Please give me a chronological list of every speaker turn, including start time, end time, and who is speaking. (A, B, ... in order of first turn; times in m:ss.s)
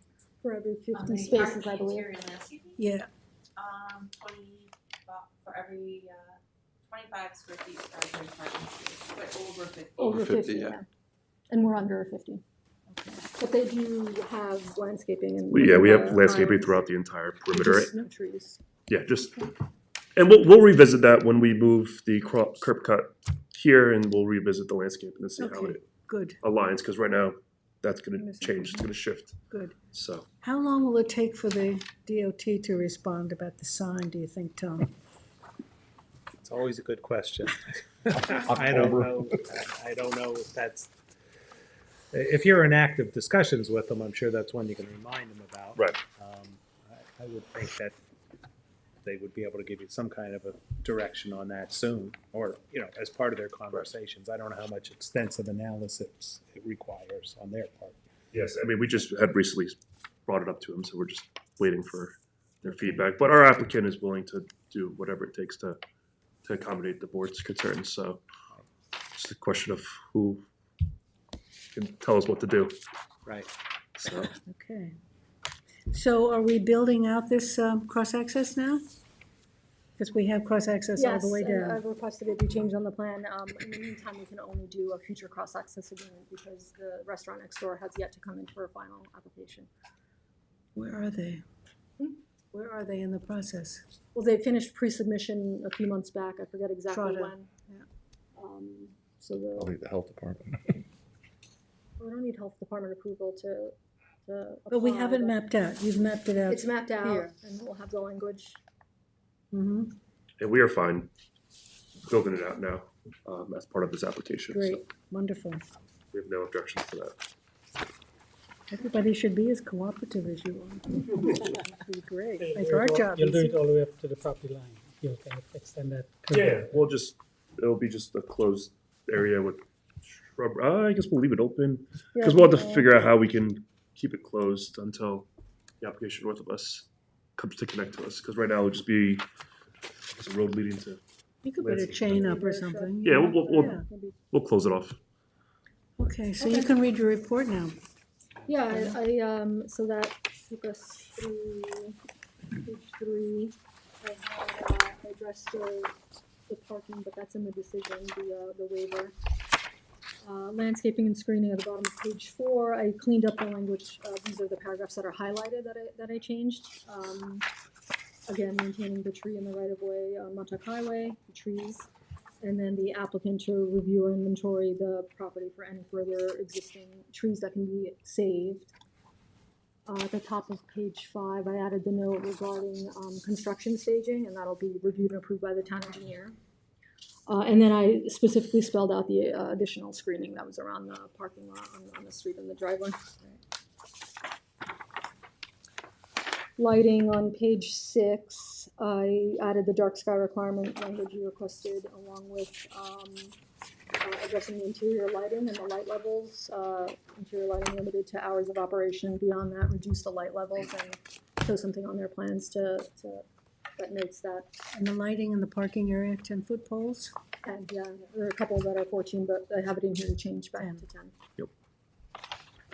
0:00.4-0:02.1 A
0:00.9-0:02.8 B
0:02.8-0:03.1 C
0:03.6-0:10.3 B
0:10.0-0:10.8 D
0:10.0-0:10.9 A
0:11.5-0:12.4 A
0:13.2-0:16.8 A
0:15.5-0:18.0 E
0:17.5-0:18.6 A
0:18.9-0:19.5 E
0:20.2-0:25.8 E
0:25.4-0:26.4 C
0:26.4-0:29.4 E
0:28.2-0:28.9 A
0:29.5-0:29.8 C
0:29.9-0:30.2 E
0:30.4-0:34.9 C
0:36.4-0:40.9 F
0:38.2-0:39.1 D
0:42.1-0:48.0 F
0:49.0-0:58.0 F
0:58.3-1:05.8 E
1:06.4-1:08.2 E
1:09.2-1:10.4 E
1:11.7-1:12.7 E
1:13.2-1:13.5 F
1:14.0-1:14.3 E
1:14.4-1:15.0 C
1:15.9-1:18.8 C
1:20.0-1:21.8 C
1:21.0-1:29.7 A
1:30.8-1:31.4 C
1:32.5-1:33.8 C
1:34.1-1:37.5 A
1:36.9-1:37.8 C
1:38.4-1:39.7 A
1:39.6-1:40.8 D
1:42.0-1:43.7 A
1:44.3-1:45.3 A
1:44.7-1:47.3 C
1:46.5-1:48.6 A
1:49.5-1:49.9 C
1:50.4-1:51.1 E
1:52.1-1:54.8 E
1:54.5-1:55.6 C
1:56.1-1:57.2 E
1:58.7-2:03.6 C
2:02.4-2:06.8 G
2:06.3-2:15.3 E
2:12.2-2:13.0 A
2:15.8-2:16.9 E
2:17.4-2:19.2 E
2:20.2-2:21.0 E
2:21.4-2:23.8 C
2:21.6-2:22.2 E
2:22.1-2:24.2 A
2:23.0-2:25.0 E
2:26.0-2:27.8 C
2:26.4-2:26.8 A
2:28.5-2:32.0 A
2:32.6-2:36.0 A
2:36.5-2:39.1 A
2:40.2-2:47.5 A
2:48.3-2:51.9 A
2:52.4-2:58.7 A
2:59.9-3:06.4 A
3:07.3-3:13.0 A
3:16.6-3:23.4 A
3:24.0-3:33.2 A
3:33.8-3:34.5 A
3:34.7-3:37.1 C
3:37.4-3:41.1 A
3:40.6-3:40.8 C